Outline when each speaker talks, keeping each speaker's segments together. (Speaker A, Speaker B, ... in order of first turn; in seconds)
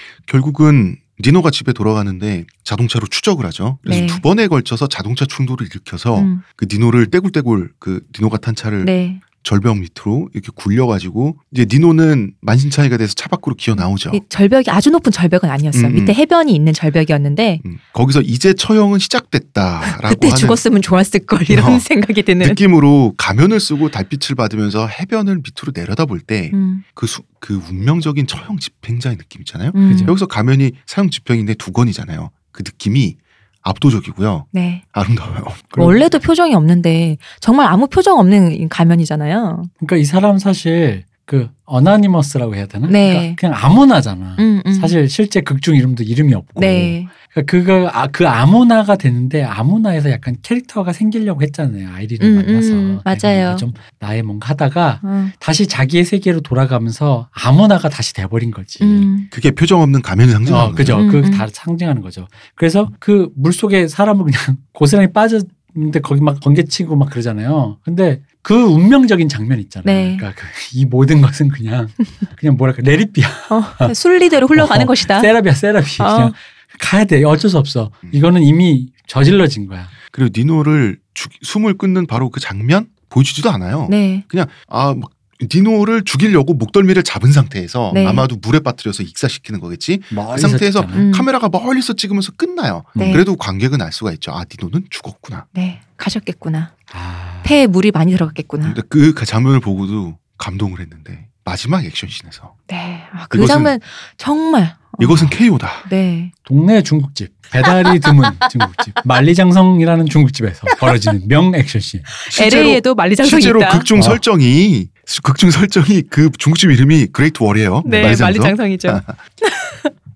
Speaker A: 0.2-14.2, 15.7-16.1, 17.6-20.6, 21.5-21.9, 22.4-35.8, 59.3-61.1, 80.1-95.5, 98.6-102.5, 103.3-103.7, 105.0-105.9, 112.3-119.2
Speaker B: 3.8-4.2, 6.1-6.4, 8.8-9.2, 13.8-17.6, 19.8-22.6, 26.5-26.8, 29.7-30.1, 34.5-34.8, 35.7-39.7, 42.9-43.4, 44.4-45.0, 46.6-47.1, 52.2-53.6, 55.0-55.3, 58.8-59.3, 60.9-61.5, 69.8-70.2, 73.5-75.3, 76.0-76.3, 83.9-84.2, 87.9-88.3, 91.0-91.3, 93.0-93.2, 95.5-96.7, 97.4-98.8, 102.7-106.3, 112.2-113.9, 117.8-119.9
Speaker C: 29.8-30.1, 39.8-59.1, 60.5-73.9, 74.5-79.9, 90.1-91.0, 92.9-93.2, 96.9-97.6, 106.4-112.1, 113.9-114.2